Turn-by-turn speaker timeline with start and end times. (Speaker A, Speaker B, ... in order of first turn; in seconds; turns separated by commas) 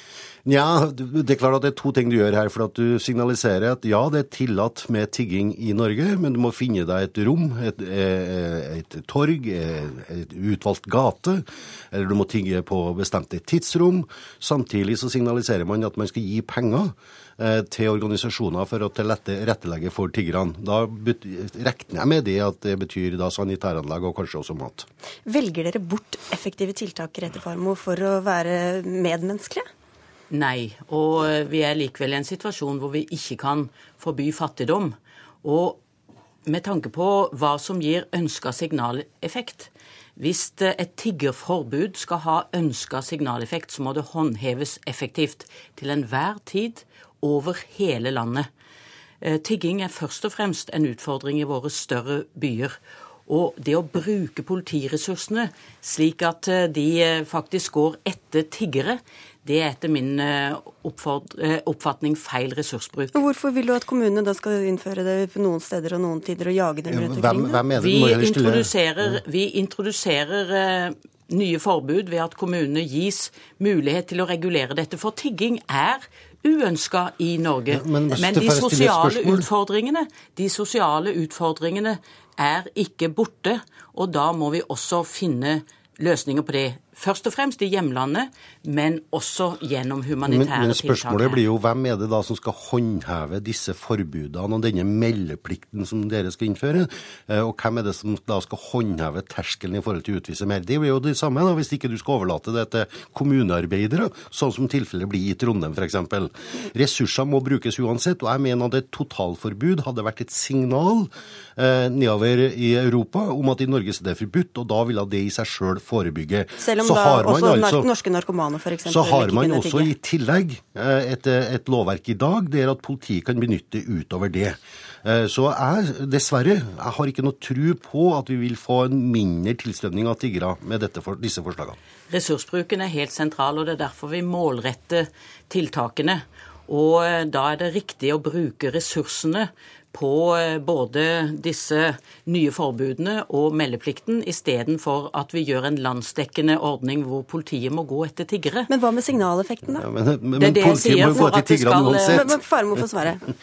Speaker A: 0.5-24.9, Speaker B: 25.3-29.6, Speaker C: 30.3-35.8, Speaker C: 36.5-48.5, Speaker C: 49.2-63.2, Speaker B: 63.1-67.7, Speaker A: 66.9-69.2, Speaker C: 67.8-91.4, Speaker A: 77.7-79.5, Speaker A: 90.2-117.9, Speaker B: 116.6-119.9, Speaker A: 118.8-131.8, Speaker C: 132.1-148.7, Speaker B: 148.7-149.8, Speaker A: 149.7-152.3, Speaker C: 150.3-152.3, Speaker B: 152.0-153.2